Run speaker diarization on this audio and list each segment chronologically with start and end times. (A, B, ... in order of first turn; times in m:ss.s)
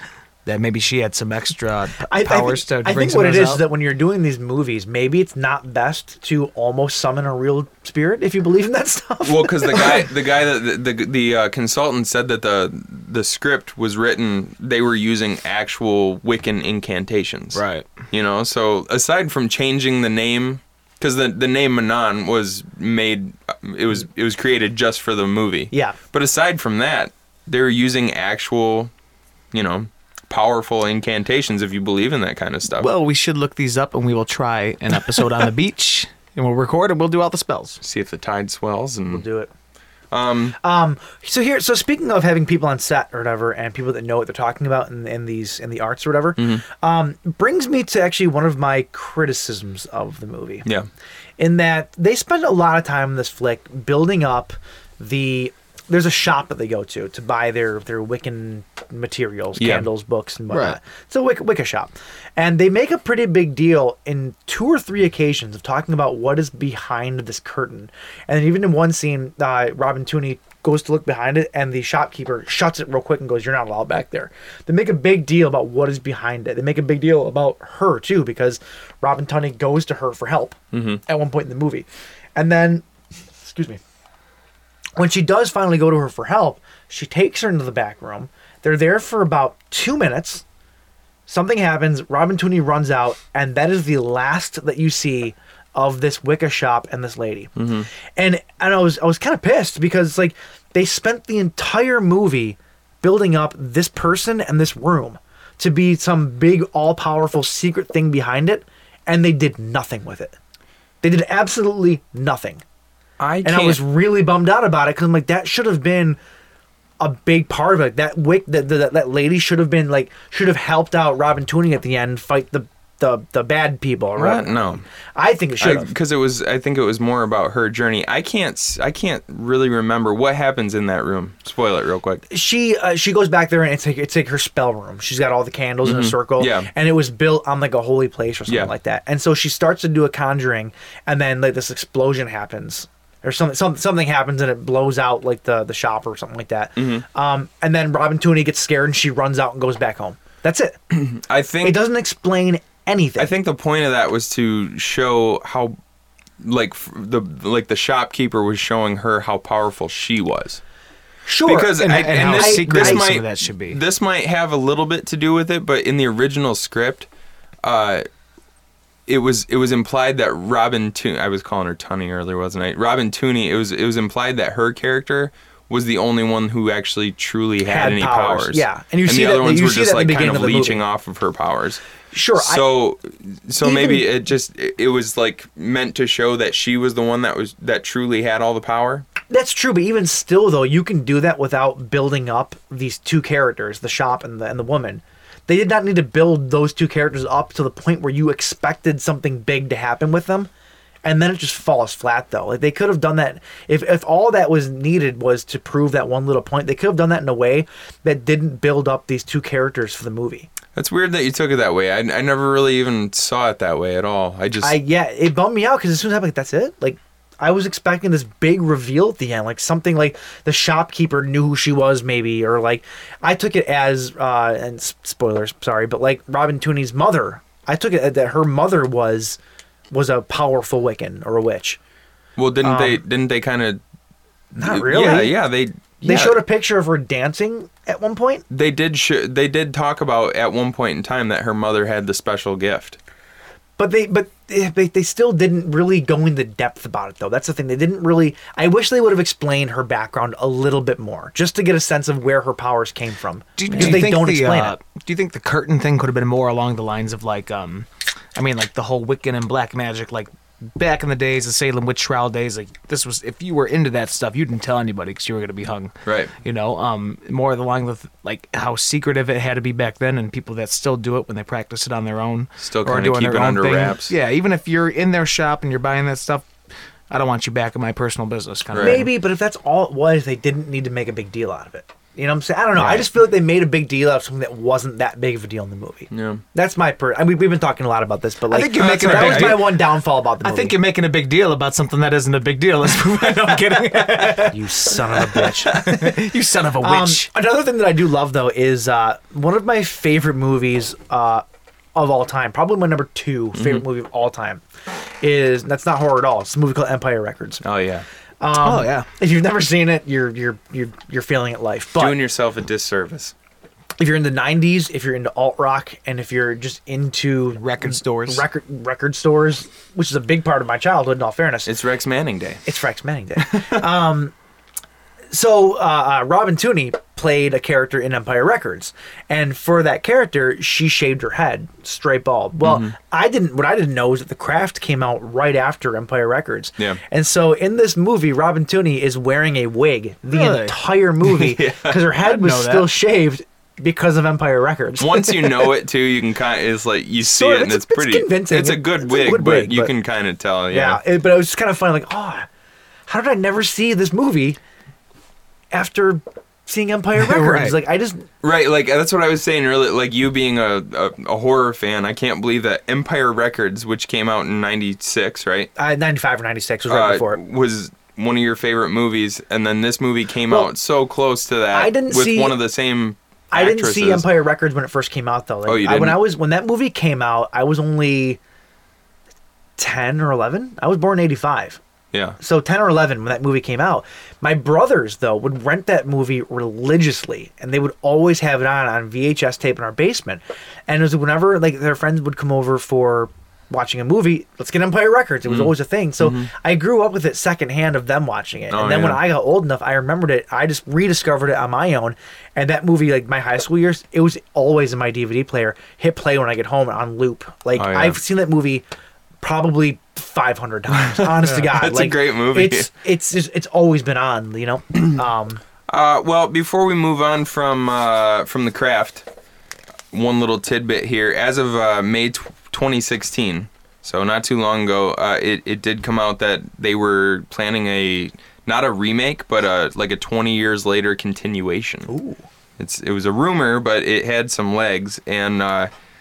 0:00.4-0:03.6 A
0:02.0-0:10.1 B
0:09.2-0:28.9 C
0:17.5-0:18.0 A
0:25.7-0:26.0 B
0:29.5-0:32.9 C
0:32.8-0:37.8 A
0:37.8-0:39.2 C
0:39.1-0:39.5 B
0:40.1-0:40.6 C
0:40.6-0:50.7 B
0:46.4-0:46.6 C
0:51.4-1:22.8 B
0:59.6-0:59.9 C
1:00.5-1:00.8 A
1:20.7-1:21.0 C
1:23.4-1:23.8 B
1:25.0-1:30.4 B
1:31.3-1:37.5 B
1:37.6-1:37.9 C
1:38.1-1:50.4 B
1:51.0-1:52.6 B
1:53.2-1:53.8 C
1:53.4-1:56.2 B
1:57.0-2:05.9 B
2:04.2-2:04.8 C
2:05.6-2:12.2 C
2:12.3-2:30.8 B
2:15.8-2:16.7 C
2:26.8-2:27.0 C
2:30.9-2:31.8 C
2:31.6-2:33.3 B
2:33.2-2:35.8 C
2:36.4-2:40.6 C
2:41.2-2:43.0 B
2:41.4-2:47.1 C
2:41.9-2:43.8 A
2:47.6-2:48.0 C
2:49.1-3:01.8 C
2:57.6-3:00.8 B
3:02.1-3:02.6 B
3:02.4-3:09.0 C
3:03.6-3:04.0 B
3:09.3-3:20.5 B
3:21.0-3:30.5 B
3:30.7-3:34.8 C
3:34.6-3:49.4 B
3:49.9-3:51.8 B
3:52.4-3:53.8 C
3:52.6-3:53.0 B
3:54.5-3:55.4 B
3:54.6-3:56.4 C
3:56.0-3:58.4 B
3:58.5-4:03.0 C
4:03.8-4:14.8 B
4:13.6-4:36.5 A
4:26.0-4:26.3 C
4:32.6-4:34.1 C
4:37.1-4:39.1 A
4:38.7-4:39.0 C
4:38.8-4:50.8 B
4:42.8-4:43.0 C
4:46.1-4:46.4 C
4:48.5-4:49.8 A
4:48.7-4:49.8 C
4:50.4-4:57.3 A
4:54.3-4:56.2 B
4:56.8-5:01.4 B
5:01.9-5:04.6 B
5:03.5-5:03.8 C
5:05.2-5:07.6 B
5:07.6-5:08.0 C
5:08.4-5:12.2 B
5:08.6-5:09.1 A
5:12.0-5:13.3 C
5:14.0-5:21.7 B
5:17.5-5:18.4 A
5:21.6-5:22.6 C
5:22.6-5:24.3 B
5:23.5-5:23.8 C
5:25.3-5:45.7 B
5:32.6-5:32.9 C
5:40.3-5:40.8 A
5:41.2-5:42.2 C
5:42.2-5:42.9 A
5:45.0-5:51.0 C
5:47.2-5:49.9 B
5:50.7-5:52.5 B
5:53.1-5:54.6 B
5:55.7-5:58.2 B
5:57.2-5:57.8 A
5:58.4-6:05.7 C
6:05.8-6:07.4 B
6:06.9-6:14.3 C
6:11.7-6:12.6 B
6:13.5-6:18.4 B
6:15.6-6:16.2 C
6:19.8-6:21.8 B
6:22.1-6:22.4 C
6:22.4-6:48.8 B
6:35.4-6:36.5 C
6:38.7-6:39.2 C
6:47.7-6:48.2 C
6:49.4-6:55.6 B
6:50.9-6:52.9 C
6:55.9-6:59.2 C
7:00.1-7:12.1 C
7:12.1-7:12.4 B
7:12.8-7:15.9 C